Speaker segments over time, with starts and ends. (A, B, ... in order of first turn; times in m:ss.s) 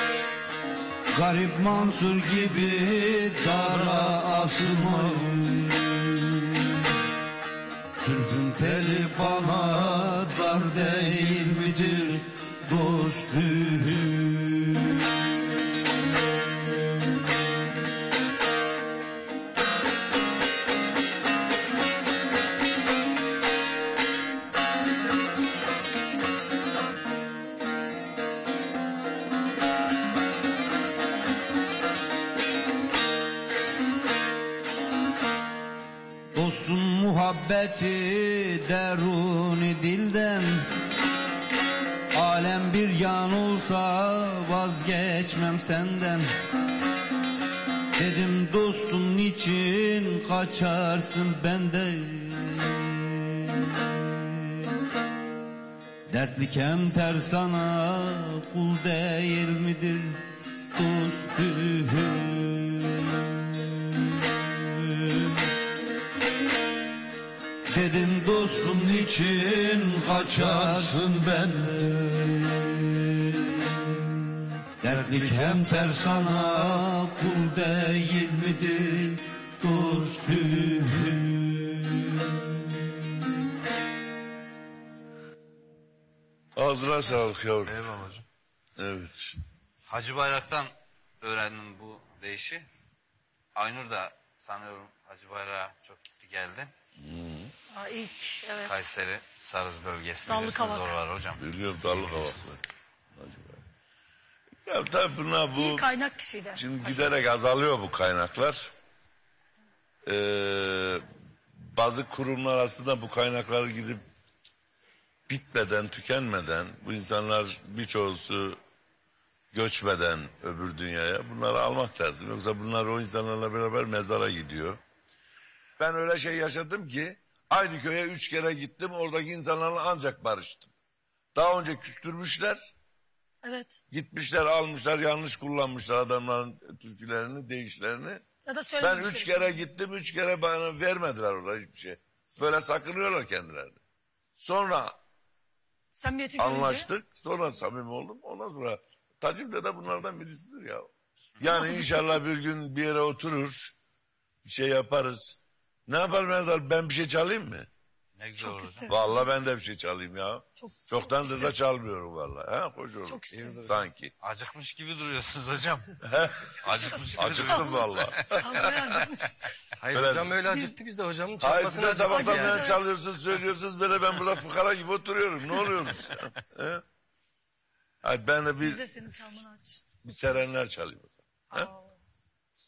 0:01.1-0:06.4 A
0:08.0-0:14.9 A
0:36.3-0:40.6 A
0:42.1-0:46.2 A
0:48.0-0:53.1 A
0:56.1-1:00.2 A
1:00.7-1:03.0 A
1:07.7-1:13.0 A
1:14.8-1:22.3 A
1:26.6-1:27.8 B
1:28.8-1:29.4 B
1:29.9-1:32.7 C
1:33.5-1:36.7 C
1:37.0-1:37.5 B
1:37.7-1:38.9 D
1:38.6-1:41.4 C
1:40.3-1:41.0 D
1:41.4-1:42.6 B
1:43.2-1:43.6 B
1:44.6-1:45.9 B
1:45.6-1:47.0 D
1:46.5-1:48.7 B
1:50.0-1:51.0 B
1:51.6-1:54.0 B
1:55.3-1:58.6 B
1:59.5-2:04.8 B
2:05.8-2:10.7 B
2:11.3-2:12.7 B
2:13.4-2:13.8 D
2:13.9-2:18.2 B
2:18.4-2:19.6 D
2:18.8-2:23.8 B
2:24.4-2:24.9 B
2:25.9-2:26.9 D
2:26.4-2:33.7 B
2:31.6-2:32.1 D
2:34.4-2:37.7 B
2:38.2-2:38.9 C
2:38.4-2:39.0 D
2:38.9-2:44.1 B
2:40.6-2:41.5 D
2:43.1-2:43.6 D
2:44.2-2:46.0 C
2:46.0-2:46.6 B
2:46.5-2:48.7 C
2:47.1-2:49.0 B
2:47.4-2:47.7 D
2:48.4-2:49.3 D
2:49.8-2:52.7 E
2:49.9-2:50.4 B
2:50.5-2:50.7 D
2:51.4-2:56.8 B
2:52.1-2:52.8 D
2:58.0-2:59.2 B
2:58.6-3:00.2 D
3:00.0-3:01.7 B
3:01.5-3:01.9 D